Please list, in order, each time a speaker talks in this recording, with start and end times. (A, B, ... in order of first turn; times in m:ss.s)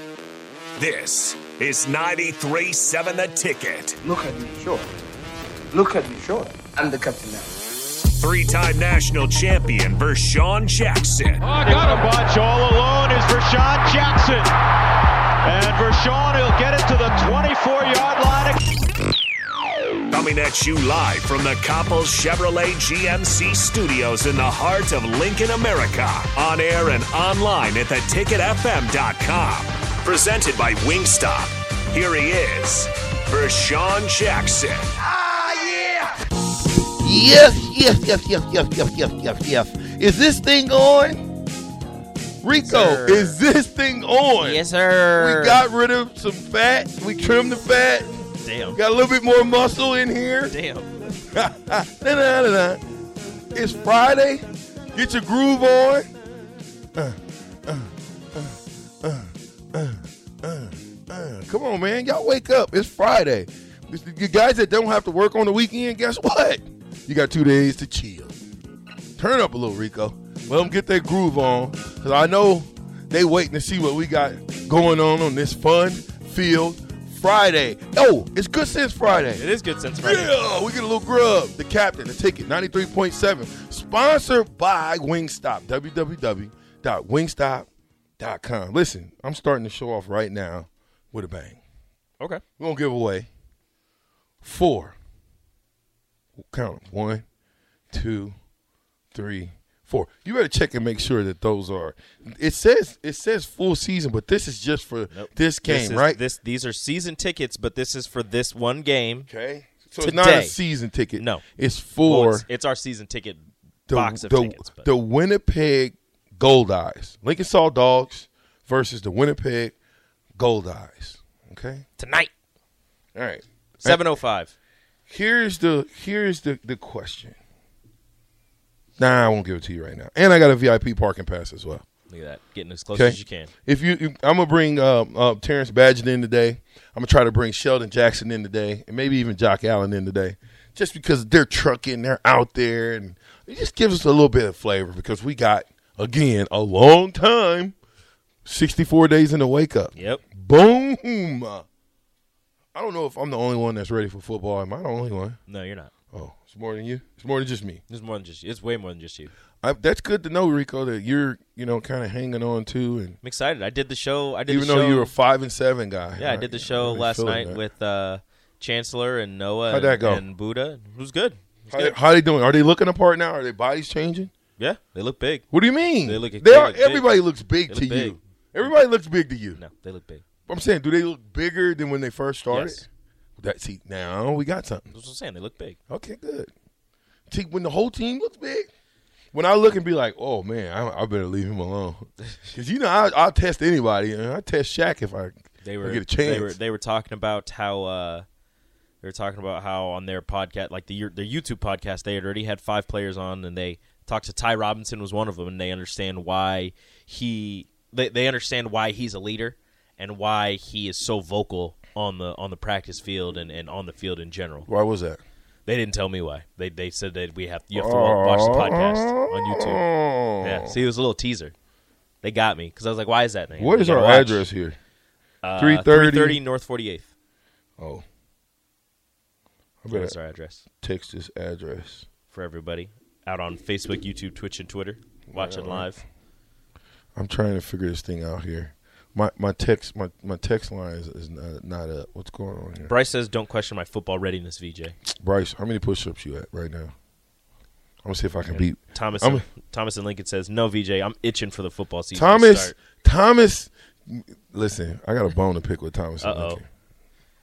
0:00.8-0:04.0 A
0:04.0-0:04.9 B
0:05.7-0:07.6 B
0:08.1-0:11.5 A
0:11.4-0:14.5 C
0:15.4-0:18.6 C
0:20.1-0:34.9 A
0:37.0-0:41.3 D
0:42.4-0:44.6 D
0:42.6-0:43.4 E
0:44.4-0:45.6 E
0:45.1-0:50.6 D
0:48.4-0:48.8 E
0:50.5-0:50.9 E
0:51.1-0:52.8 D
0:53.5-0:56.1 D
0:56.9-1:08.4 D
1:09.2-1:19.4 D
1:19.2-1:20.3 E
1:20.0-1:27.7 D
1:28.2-1:31.6 D
1:32.6-1:33.3 D
1:34.4-1:35.0 D
1:36.4-1:37.2 D
1:37.9-1:38.4 D
1:39.1-1:46.2 D
1:45.1-1:49.3 E
1:49.3-1:52.4 D
1:50.0-1:50.5 E
1:51.2-1:51.4 E
1:52.0-1:54.9 E
1:53.9-1:59.7 D
2:00.4-2:01.8 D
2:02.0-2:02.3 E
2:03.1-2:04.0 D
2:03.8-2:04.5 E
2:05.1-2:07.4 D
2:09.0-2:11.8 D
2:12.1-2:13.5 E
2:12.9-2:27.7 D
2:28.4-2:31.6 D
2:30.0-2:30.2 E
2:32.7-2:35.4 D
2:35.5-2:35.9 E
2:36.1-2:37.8 D
2:37.9-2:39.3 E
2:39.6-2:43.2 D
2:43.2-2:45.1 E
2:44.5-2:47.6 D
2:46.2-2:51.9 E
2:49.7-2:50.2 D
2:51.7-2:54.3 D
2:54.6-2:55.4 E
2:55.5-2:59.6 D
2:56.0-2:57.1 E
2:57.7-2:58.2 E
2:59.6-3:00.2 E
3:00.5-3:02.8 D
3:02.5-3:02.8 E
3:03.4-3:04.9 D
3:04.9-3:05.8 E
3:05.9-3:06.5 D
3:07.3-3:08.7 D
3:09.3-3:16.6 D
3:15.6-3:18.2 E
3:19.0-3:34.7 E
3:34.7-3:35.2 D
3:35.7-3:39.8 E
3:37.7-3:40.7 D
3:40.4-3:41.5 E
3:42.2-3:44.4 E
3:43.6-3:44.8 D
3:45.4-3:47.1 E
3:45.6-3:46.4 D
3:47.8-3:48.0 D
3:49.8-3:50.1 D
3:49.9-3:50.6 E
3:50.8-3:52.1 D
3:52.3-3:56.0 E
3:55.3-3:55.9 D
3:57.2-4:02.9 D
4:02.9-4:04.9 E
4:05.1-4:06.9 D
4:08.0-4:09.4 D
4:08.5-4:12.7 E
4:12.1-4:16.6 D
4:16.2-4:16.6 E